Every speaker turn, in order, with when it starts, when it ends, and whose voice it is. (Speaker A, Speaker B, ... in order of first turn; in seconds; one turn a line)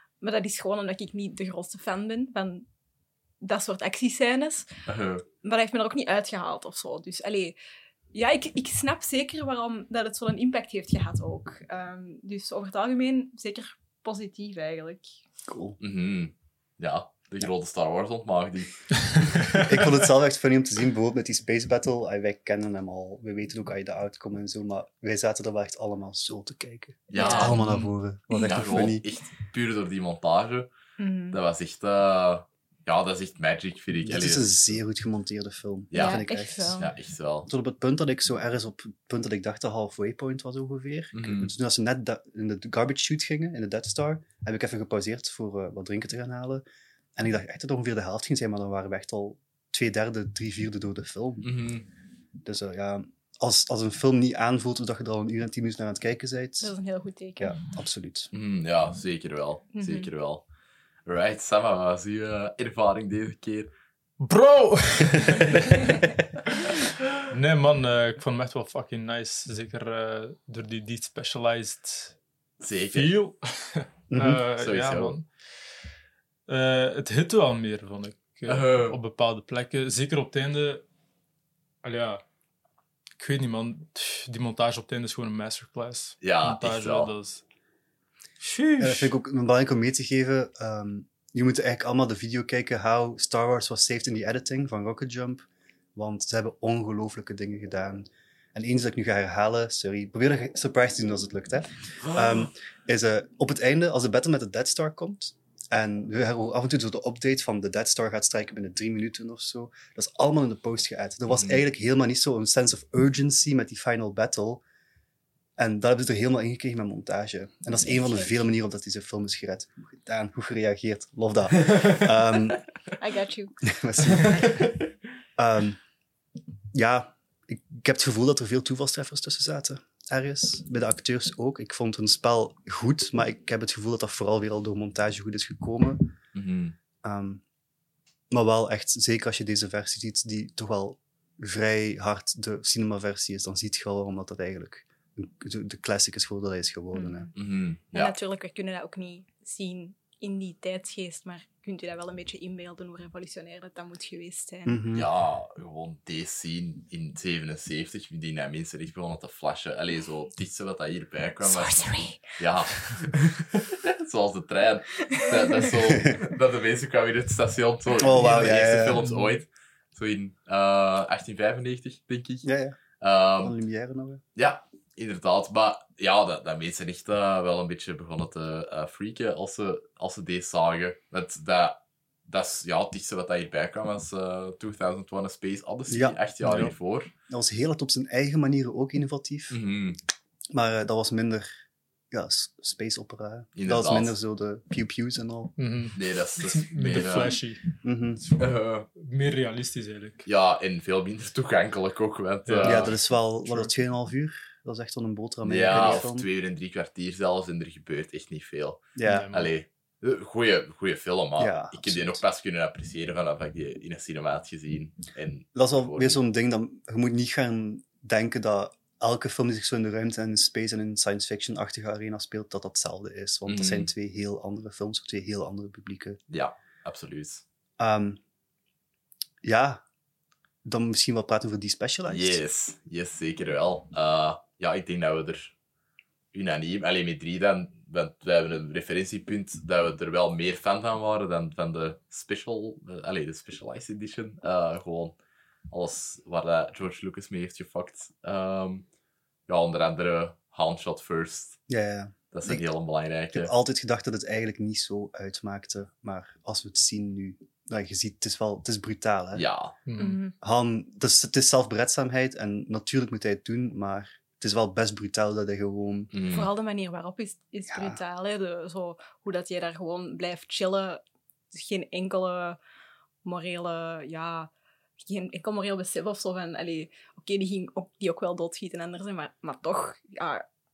Speaker A: 0.2-2.7
Speaker A: 3.4-4.7
Speaker B: 4.9-5.2
Speaker A: 5.4-7.5
Speaker A: 8.1-15.1
Speaker C: 15.5-15.8
Speaker B: 15.8-19.6
Speaker C: 19.5-29.0
Speaker B: 27.1-30.7
Speaker A: 27.1-27.6
Speaker A: 31.0-31.4
Speaker B: 31.3-34.8
Speaker C: 34.0-36.8
Speaker B: 35.9-36.2
Speaker A: 35.9-36.9
Speaker B: 36.8-37.5
Speaker C: 37.5-46.6
Speaker B: 41.1-41.5
Speaker C: 47.1-51.5
Speaker B: 51.4-51.9
Speaker C: 52.4-56.7
Speaker A: 56.6-57.6
Speaker C: 57.4-58.3
Speaker B: 58.3-60.4
Speaker A: 59.7-60.1
Speaker B: 61.0-63.7
Speaker D: 64.2-66.1
Speaker D: 67.3-72.1
Speaker B: 72.6-73.1
Speaker D: 72.9-75.3
Speaker C: 74.1-74.4
Speaker B: 74.6-75.2
Speaker D: 76.5-80.8
Speaker B: 78.5-79.0
Speaker D: 81.8-82.2
Speaker D: 83.2-87.4
Speaker B: 86.2-87.1
Speaker D: 88.4-89.1
Speaker C: 88.8-114.6
Speaker B: 102.0-102.5
Speaker B: 111.3-111.6
Speaker C: 115.6-122.6
Speaker A: 117.9-118.3
Speaker B: 121.7-121.9
Speaker A: 123.0-123.5
Speaker C: 123.6-124.7
Speaker B: 124.3-124.7
Speaker C: 125.4-125.8
Speaker C: 126.7-136.1
Speaker B: 136.3-136.7
Speaker C: 137.0-137.4
Speaker C: 138.3-147.3
Speaker A: 146.9-147.3
Speaker B: 147.3-148.2
Speaker A: 147.9-154.8
Speaker C: 154.7-155.1
Speaker B: 154.9-172.4
Speaker A: 161.4-162.2
Speaker A: 165.1-165.7
Speaker C: 165.9-166.2
Speaker C: 168.0-169.1
Speaker D: 169.0-169.3
Speaker C: 172.4-172.8
Speaker B: 173.0-173.5
Speaker C: 173.4-174.2
Speaker B: 174.3-187.1
Speaker C: 185.9-186.2
Speaker D: 186.4-186.7
Speaker C: 187.3-189.6
Speaker B: 189.5-190.0
Speaker C: 190.5-191.5
Speaker C: 192.1-195.5
Speaker B: 193.6-194.1
Speaker D: 195.6-200.2
Speaker B: 195.9-197.4
Speaker C: 197.8-198.2
Speaker B: 198.4-198.9
Speaker B: 200.2-202.9
Speaker D: 202.5-202.9
Speaker C: 202.6-206.2
Speaker B: 205.4-216.2
Speaker C: 208.9-209.3
Speaker D: 209.1-209.5
Speaker C: 211.4-212.2
Speaker C: 215.5-226.2
Speaker B: 223.5-223.9
Speaker B: 226.3-227.4
Speaker C: 227.8-228.2
Speaker C: 229.4-229.8
Speaker C: 230.6-232.4
Speaker B: 232.1-235.5
Speaker B: 236.3-245.2
Speaker B: 245.7-248.8
Speaker B: 249.5-251.6
Speaker C: 251.7-252.6
Speaker B: 252.3-253.5
Speaker C: 253.3-259.4
Speaker B: 259.3-259.7
Speaker D: 259.9-260.2
Speaker A: 260.0-260.3
Speaker C: 260.4-266.1
Speaker B: 266.1-266.5
Speaker A: 266.3-271.0
Speaker C: 267.7-268.0
Speaker A: 271.5-272.6
Speaker A: 273.2-274.5
Speaker A: 275.0-280.4